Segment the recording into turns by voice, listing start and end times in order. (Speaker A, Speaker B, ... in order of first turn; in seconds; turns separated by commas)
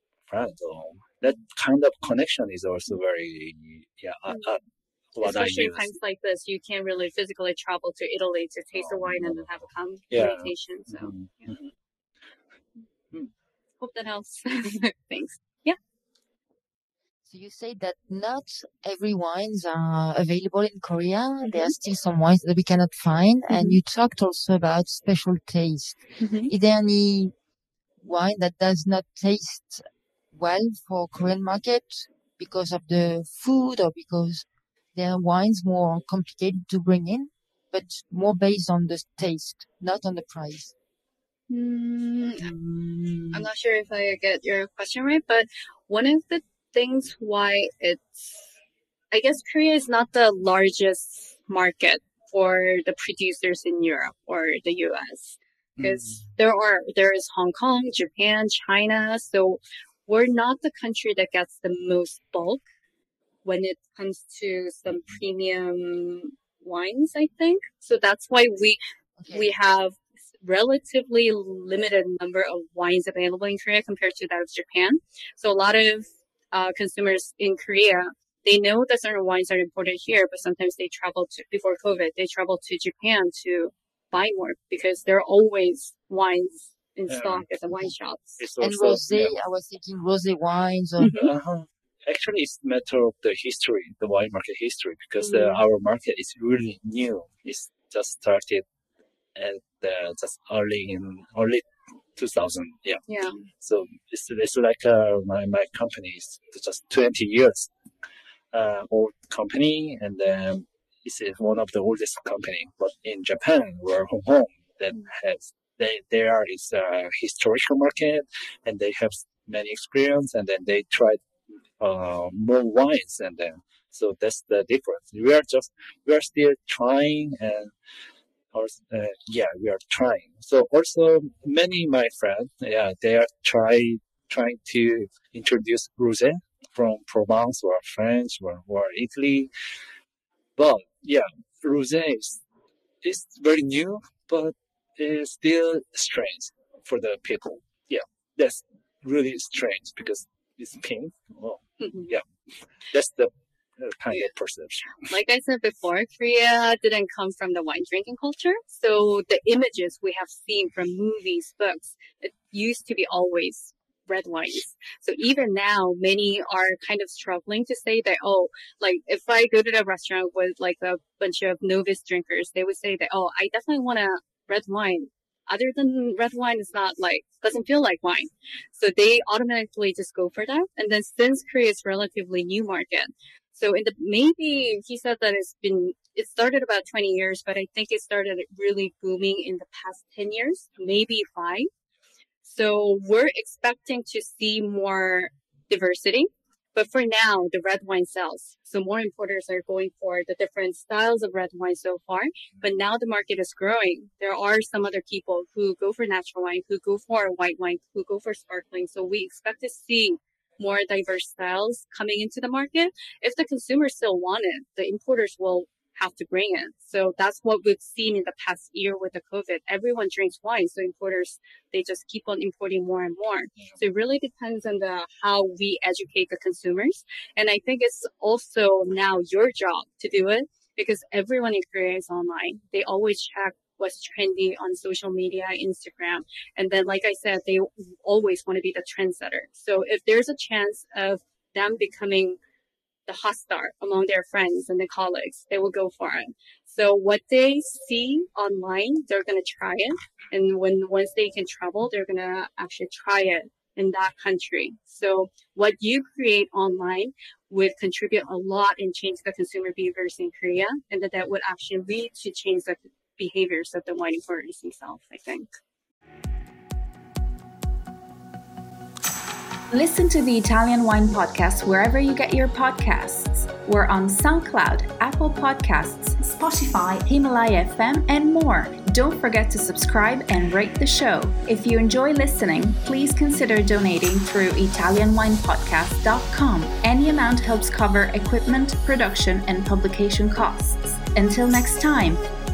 Speaker A: 0.3-4.6, Speaker A: 5.1-5.9, Speaker B: 5.2-11.5, Speaker A: 8.7-11.7, Speaker B: 13.8-15.8, Speaker C: 17.3-27.3, Speaker B: 21.4-21.8, Speaker B: 23.5-23.8, Speaker B: 26.2-26.5, Speaker C: 28.0-40.7, Speaker B: 41.5-42.5, Speaker A: 42.7-43.4, Speaker C: 42.8-43.1, Speaker B: 43.3-48.5, Speaker B: 49.1-62.6, Speaker A: 55.8-56.2, Speaker B: 63.5-88.4, Speaker A: 64.9-65.2, Speaker C: 69.2-69.5, Speaker A: 87.1-87.5, Speaker A: 88.4-89.4, Speaker C: 88.6-91.2, Speaker B: 91.0-91.3, Speaker A: 91.1-98.7, Speaker B: 95.2-95.6, Speaker A: 99.3-103.0, Speaker B: 103.1-103.5, Speaker A: 103.6-107.7, Speaker A: 108.5-121.3, Speaker A: 121.8-127.7, Speaker A: 128.5-139.5, Speaker A: 140.6-142.4, Speaker A: 143.0-152.2, Speaker B: 151.8-152.1, Speaker A: 152.9-155.1, Speaker B: 155.0-191.7, Speaker B: 192.4-242.4, Speaker B: 243.1-265.5, Speaker D: 269.7-292.2